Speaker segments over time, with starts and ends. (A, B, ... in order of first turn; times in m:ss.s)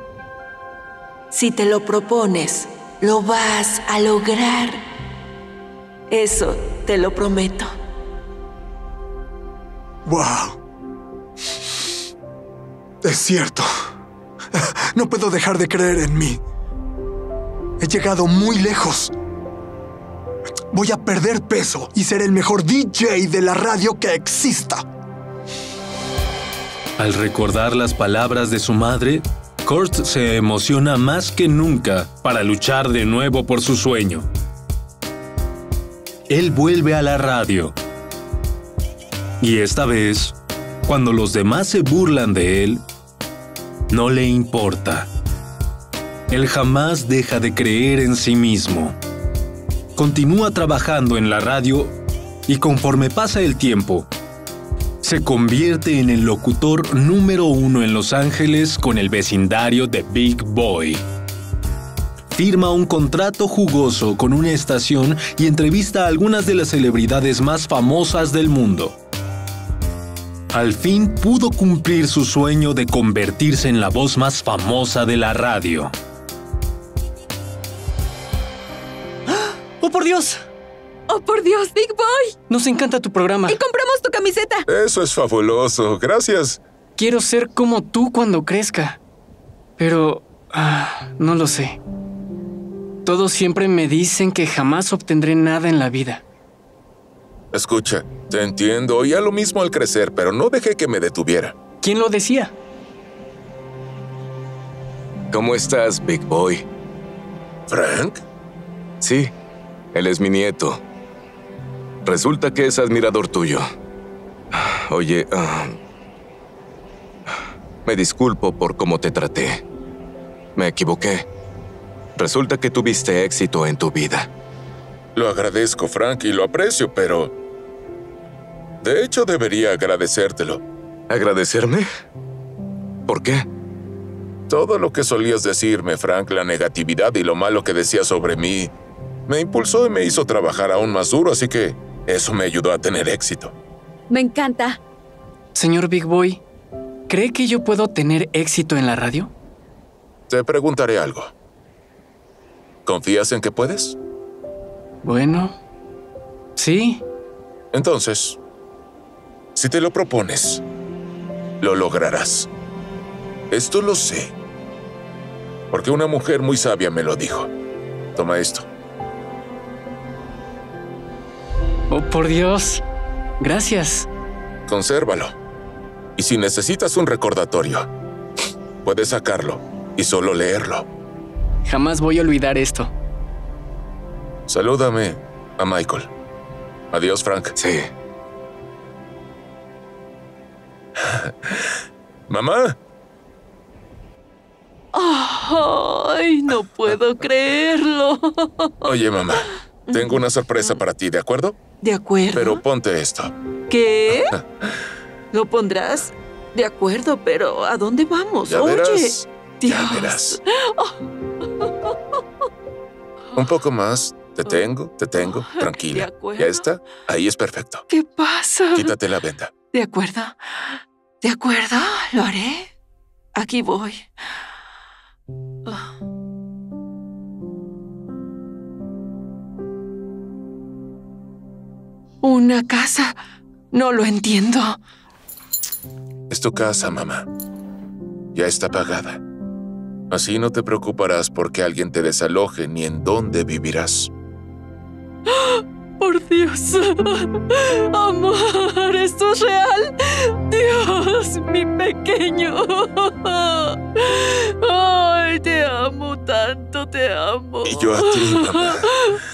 0:01.3-0:04.8 A
0:06.1-0:07.7 A
0:10.1-0:10.6 B
0:13.0-0:13.7 B
0:14.6-0:16.4 B
0:17.8-0:19.1 B
0:20.7-0:24.8 B
0:27.0-0:34.3 C
0:36.3-0:37.8 C
0:39.4-0:42.8 C
0:43.9-0:45.1 C
0:46.3-0:49.0 C
0:50.0-0:52.0 C
0:52.5-0:54.1 C
0:55.0-1:01.0 C
1:02.3-1:09.0 C
1:10.5-1:15.9 C
1:19.8-1:20.4 D
1:21.1-1:22.3 E
1:22.5-1:23.6 D
1:23.5-1:24.6 E
1:24.7-1:26.6 F
1:27.0-1:29.0 D
1:29.8-1:31.8 D
1:33.1-1:36.2 D
1:37.5-1:41.6 F
1:41.8-1:42.5 D
1:45.3-1:46.6 G
1:47.7-1:48.2 F
1:49.0-1:49.3 G
1:49.9-1:50.8 G
1:52.1-1:53.6 G
1:54.5-1:55.8 G
1:57.9-1:59.6 G
2:00.6-2:01.3 G
2:02.2-2:04.3 G
2:05.2-2:07.3 F
2:08.8-2:10.6 F
2:11.1-2:11.9 G
2:13.1-2:13.5 G
2:14.5-2:18.7 F
2:19.3-2:23.5 F
2:24.1-2:24.8 E
2:25.6-2:26.4 D
2:27.1-2:29.3 D
2:30.3-2:31.3 F
2:32.9-2:34.0 F
2:35.0-2:35.6 D
2:36.6-2:37.0 D
2:37.7-2:38.4 F
2:39.6-2:40.6 F
2:41.6-2:42.5 F
2:43.5-2:44.3 F
2:45.7-2:47.5 F
2:48.2-2:48.7 F
2:51.9-2:52.8 D
2:53.4-2:54.1 D
2:54.7-2:55.4 F
2:56.2-2:57.9 F
2:58.8-3:00.9 F
3:01.7-3:02.9 D
3:04.5-3:06.1 F
3:06.9-3:07.6 F
3:07.6-3:07.9 G
3:12.3-3:12.8 F
3:14.9-3:18.9 A
3:18.9-3:21.6 F
3:19.9-3:20.8 A
3:21.8-3:22.6 A
3:22.4-3:23.3 F
3:23.7-3:24.3 A
3:25.3-3:31.9 A
3:28.5-3:30.4 F
3:33.4-3:37.8 F
3:35.1-3:36.7 A
3:37.9-3:39.0 A
3:38.7-3:39.5 F
3:39.7-3:42.7 A
3:43.4-3:44.1 A
3:52.2-3:53.2 A
3:53.7-3:54.8 A
3:56.3-3:57.3 F
3:58.3-3:59.2 F
4:00.1-4:04.1 F
4:05.3-4:19.1 A
4:17.6-4:18.9 F